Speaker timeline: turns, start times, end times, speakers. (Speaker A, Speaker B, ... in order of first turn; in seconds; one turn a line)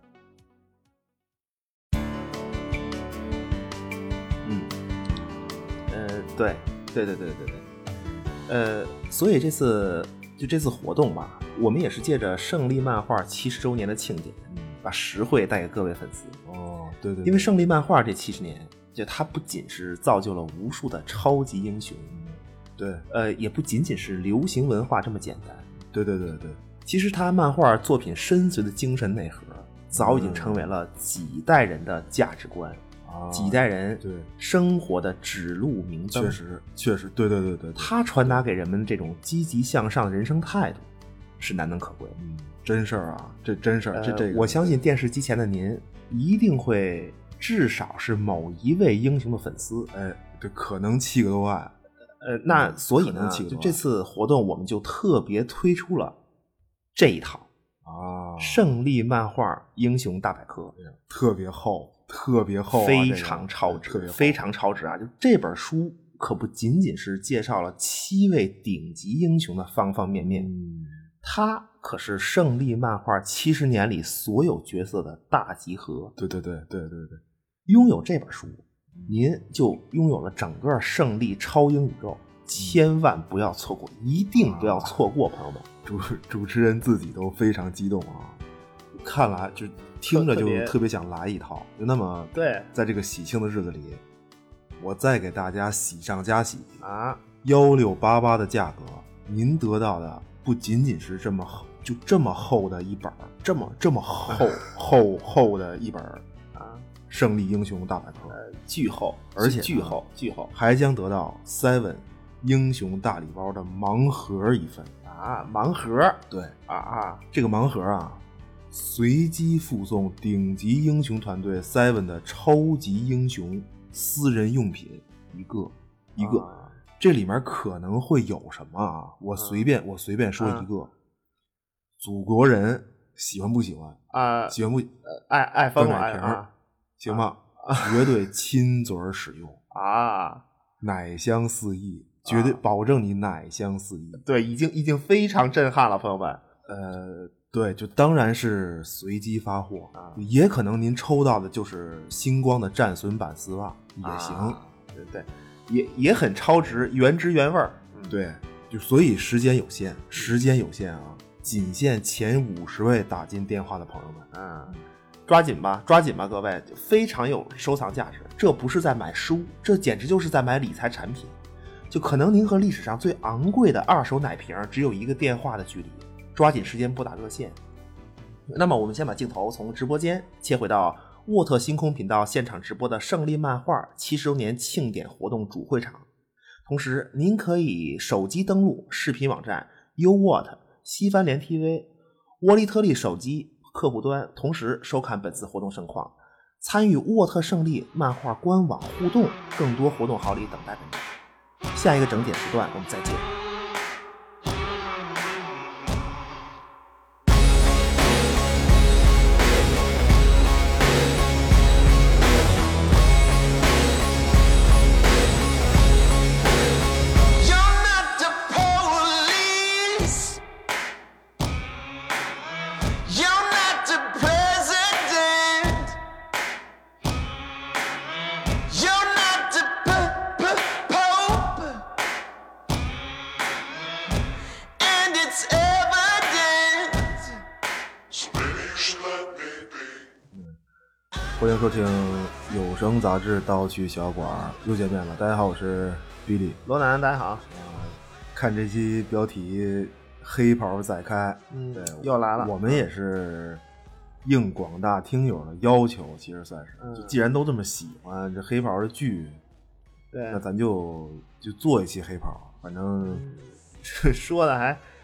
Speaker A: 4.4-4.7
Speaker B: 5.9-7.7
Speaker B: 8.5-16.4
Speaker A: 14.5-14.8
Speaker A: 16.4-17.5
Speaker B: 17.2-22.2
Speaker A: 22.1-23.0
Speaker B: 23.1-25.7
Speaker A: 25.9-26.6
Speaker B: 26.8-36.4
Speaker A: 29.9-30.7
Speaker A: 33.0-34.3
Speaker A: 36.1-38.4
Speaker B: 37.8-40.9
Speaker B: 41.4-42.2
Speaker A: 42.2-44.8
Speaker B: 43.9-49.9
Speaker A: 49.9-51.7
Speaker B: 52.2-56.2
Speaker A: 52.5-53.8
Speaker B: 56.9-57.5
Speaker A: 57.8-58.7
Speaker B: 58.4-60.8
Speaker A: 60.8-64.4
Speaker B: 62.7-70.5
Speaker A: 70.2-71.0
Speaker B: 71.2-76.1
Speaker A: 76.2-77.2
Speaker B: 77.7-85.7
Speaker A: 84.3-85.0
Speaker A: 85.8-88.4
Speaker A: 89.0-94.0
Speaker B: 90.1-90.8
Speaker B: 92.3-92.7
Speaker A: 94.8-96.8
Speaker B: 96.8-97.2
Speaker A: 97.4-106.2
Speaker B: 104.3-104.6
Speaker B: 106.5-106.9
Speaker A: 107.1-108.4
Speaker B: 108.3-110.5
Speaker A: 109.3-110.0
Speaker A: 110.5-115.0
Speaker B: 115.0-117.2
Speaker A: 116.3-116.5
Speaker A: 117.3-126.5
Speaker B: 126.2-126.8
Speaker A: 127.0-130.9
Speaker B: 129.3-129.7
Speaker B: 130.4-130.7
Speaker A: 132.0-134.9
Speaker B: 134.1-136.5
Speaker A: 135.7-136.4
Speaker A: 137.0-139.6
Speaker B: 137.1-138.1
Speaker B: 139.7-140.4
Speaker A: 140.8-144.2
Speaker B: 142.2-142.6
Speaker B: 144.2-146.4
Speaker A: 146.7-154.6
Speaker B: 149.9-150.2
Speaker B: 154.0-158.2
Speaker A: 158.1-164.8
Speaker B: 164.3-164.8
Speaker B: 165.3-171.3
Speaker B: 171.9-177.6
Speaker B: 178.5-186.1
Speaker B: 186.7-201.1
Speaker B: 201.7-203.3
Speaker C: 217.3-220.4
Speaker C: 223.0-226.0
Speaker C: 228.5-231.8
Speaker C: 234.8-237.4
Speaker C: 238.1-239.4
Speaker A: 240.3-240.6
Speaker A: 241.4-246.6
Speaker B: 244.2-244.6
Speaker B: 246.6-247.4
Speaker A: 247.5-253.6
Speaker B: 251.5-252.8
Speaker A: 254.2-259.4
Speaker B: 256.8-257.2
Speaker B: 260.1-260.4
Speaker A: 260.3-263.2
Speaker B: 263.0-264.8